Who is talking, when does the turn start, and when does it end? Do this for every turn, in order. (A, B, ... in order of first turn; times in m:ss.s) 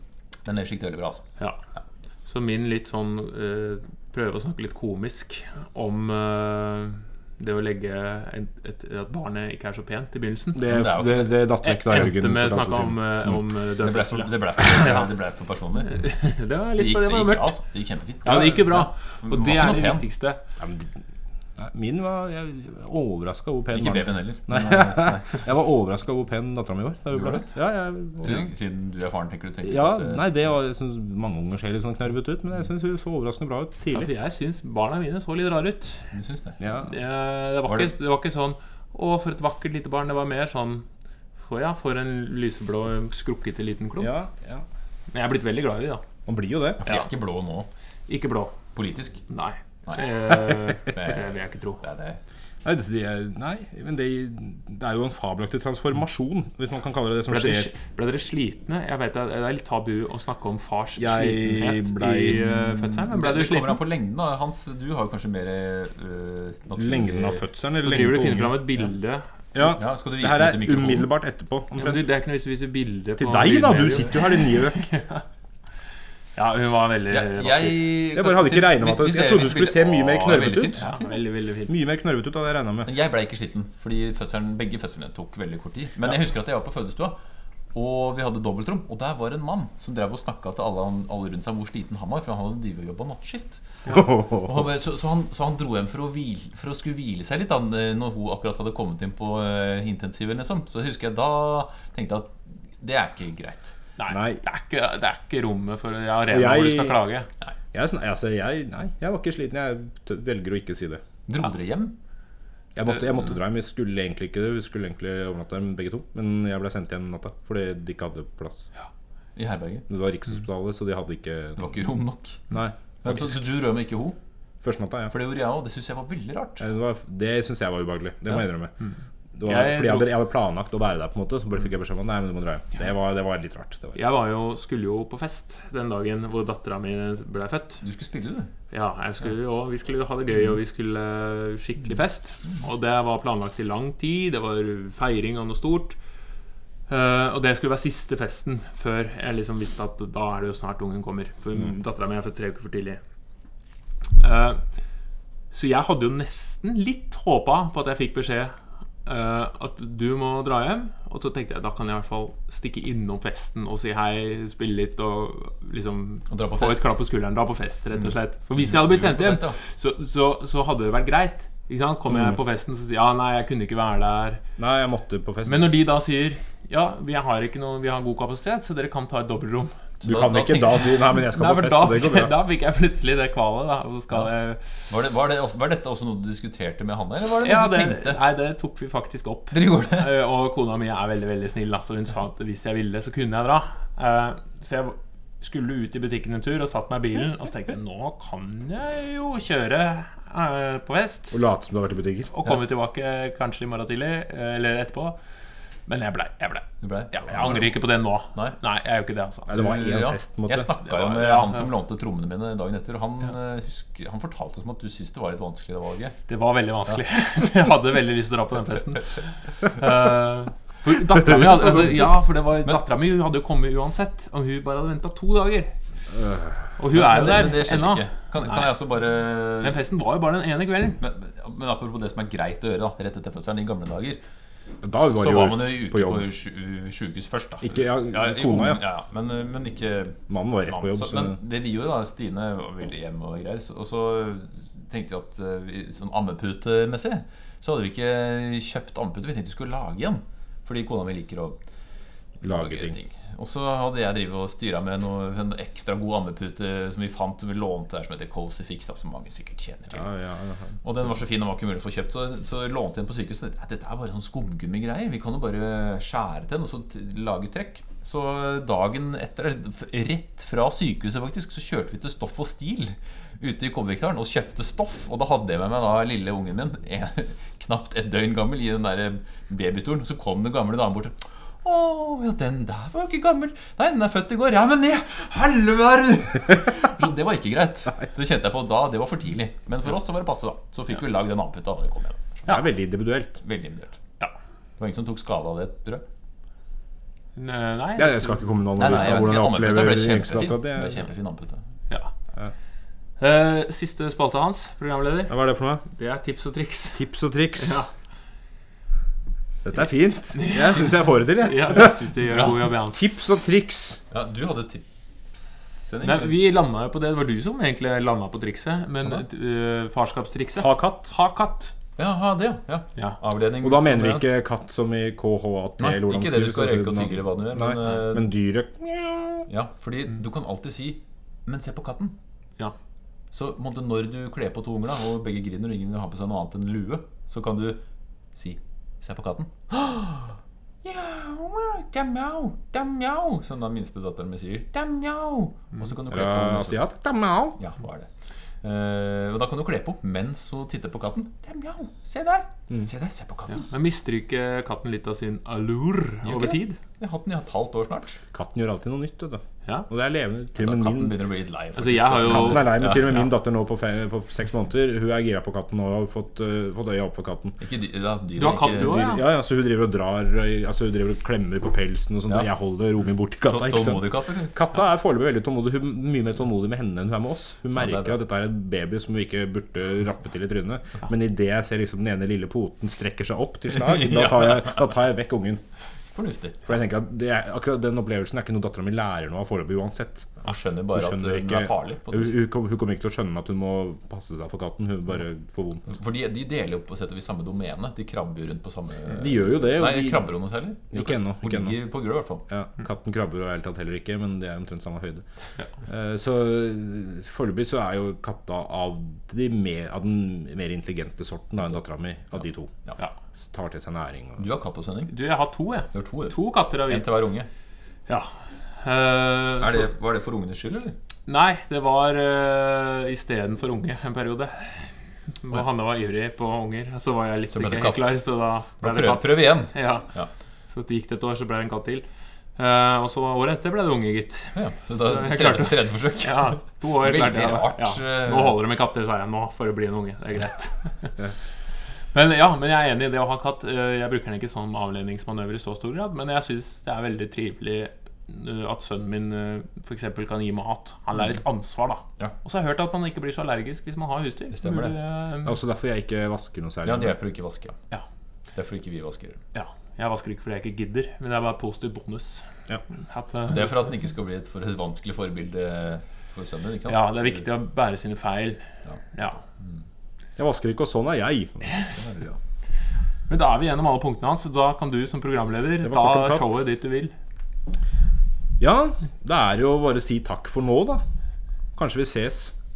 0:00.4-0:01.3 A
0:02.2-0:10.6 B
0:10.5-0:13.4 C
0:10.6-0:11.3 A
0:11.6-0:15.1 B
0:13.8-0:16.0 A
0:15.8-0:17.6 B
0:16.8-0:20.0 A
0:18.2-0:20.4 B
0:20.6-0:20.9 C
0:21.6-0:28.5 C
0:23.7-0:25.4 A
0:27.1-0:27.4 A
0:28.2-0:30.4 A
0:29.6-0:34.1 C
0:33.9-0:36.1 B
0:36.1-0:36.6 A
0:36.6-0:36.9 C
0:36.8-0:40.8 B
0:37.6-0:37.9 A
0:41.4-0:44.1 B
0:44.0-0:44.6 C
0:45.1-0:46.0 B
0:46.2-0:46.8 C
0:46.8-0:47.7 A
0:48.1-0:48.6 B
0:48.7-0:49.2 A
0:49.3-0:51.8 B
0:49.8-0:52.2 A
0:52.6-0:57.7 C
0:57.3-1:03.8 B
1:01.0-1:02.5 C
1:03.0-1:07.4 A
1:06.8-1:08.7 C
1:07.8-1:09.2 B
1:09.5-1:12.1 C
1:09.7-1:11.1 A
1:11.8-1:15.2 B
1:13.2-1:14.9 C
1:16.4-1:17.8 B
1:17.1-1:21.0 A
1:18.1-1:20.8 C
1:20.3-1:21.7 B
1:21.7-1:22.9 C
1:22.8-1:27.2 A
1:27.7-1:43.8 A
1:33.9-1:34.5 C
1:44.0-1:47.3 B
1:44.1-1:44.4 C
1:46.3-1:47.0 C
1:47.7-1:51.0 C
1:51.3-1:52.0 A
1:52.7-1:58.7 C
1:59.4-1:59.8 A
1:59.9-2:01.8 C
2:01.6-2:02.5 A
2:02.5-2:03.4 C
2:03.0-2:04.2 A
2:04.6-2:05.2 C
2:05.1-2:06.6 A
2:06.6-2:08.7 C
2:08.8-2:10.1 B
2:09.4-2:14.0 C
2:13.9-2:17.8 B
2:17.8-2:18.5 A
2:18.7-2:26.0 B
2:26.9-2:33.0 B
2:34.2-2:34.6 B
2:35.5-2:54.4 B
2:46.3-2:46.9 A
2:48.0-2:49.6 A
2:54.6-2:55.8 C
2:55.4-2:59.8 B
3:00.0-3:01.0 A
3:00.0-3:02.4 C
3:01.3-3:04.6 B
3:04.9-3:08.2 A
3:07.4-3:21.4 B
3:09.5-3:10.1 A
3:21.3-3:22.3 C
3:22.3-3:25.2 B
3:25.9-3:29.5 B
3:26.8-3:27.8 A
3:29.5-3:30.7 C
3:29.5-3:36.2 A
3:30.8-3:31.7 B
3:36.3-3:45.7 B
3:41.3-3:42.1 A
3:46.2-3:46.6 C
3:46.8-3:48.7 B
3:46.9-3:49.8 A
3:49.6-3:51.0 B
3:51.0-3:54.2 A
3:54.8-3:56.3 C
3:55.0-4:11.6 A
3:57.6-3:58.8 C
4:00.3-4:01.4 C
4:12.4-4:20.1 A
4:12.4-4:13.0 C
4:19.9-4:20.8 C
4:20.8-4:52.6 A
4:52.5-4:53.4 C
4:53.4-4:54.0 A
4:54.8-4:56.0 A
4:57.4-4:58.4 B
4:58.0-5:01.0 C
4:58.8-5:01.6 A
5:03.2-5:07.9 B
5:05.3-5:05.8 C
5:06.9-5:07.8 C
5:09.6-5:14.0 C
5:10.3-5:13.0 B
5:14.1-5:16.4 A
5:16.0-5:21.7 B
5:20.6-5:21.1 C
5:22.0-5:24.3 A
5:23.6-5:29.5 C
5:25.8-5:28.3 A
5:29.5-5:32.1 A
5:33.3-5:37.8 A
5:38.3-5:46.8 A
5:46.1-5:47.6 C
5:47.6-5:48.1 A
5:48.6-5:53.7 A
5:53.5-5:56.8 B
5:56.2-5:58.2 A
5:58.3-6:01.2 C
6:00.6-6:03.2 A
6:01.8-6:03.2 B
6:02.2-6:07.6 C
6:07.6-6:09.2 A
6:08.4-6:09.3 B
6:08.6-6:25.6 C
6:13.4-6:14.5 A
6:17.8-6:18.2 A
6:23.7-6:24.8 A
6:26.1-6:26.6 A
6:26.6-6:30.4 C
6:30.4-6:32.4 A
6:30.9-6:35.9 C
6:35.9-6:42.4 A
6:39.2-6:40.3 C
6:40.9-6:41.8 C
6:42.5-6:45.2 C
6:45.9-6:52.7 C
6:53.4-6:54.4 C
6:54.4-6:55.1 A
6:55.1-6:57.1 B
6:55.9-6:57.5 A
6:58.1-6:59.9 B
6:59.6-7:00.9 A
7:01.3-7:10.1 B
7:07.5-7:08.2 A
7:08.8-7:10.3 A
7:10.7-7:12.0 B
7:12.6-7:21.1 B
7:14.5-7:18.6 A
7:22.1-7:35.6 B
7:34.5-7:35.0 A
7:35.4-7:37.2 C
7:36.8-7:37.8 A
7:38.5-7:39.4 A
7:39.5-7:43.7 B
7:43.5-7:47.4 A
7:46.9-7:49.4 B
7:50.4-7:51.8 C
7:53.3-7:57.1 B
7:55.8-7:56.6 C
7:58.6-8:01.0 C
8:01.8-8:02.5 C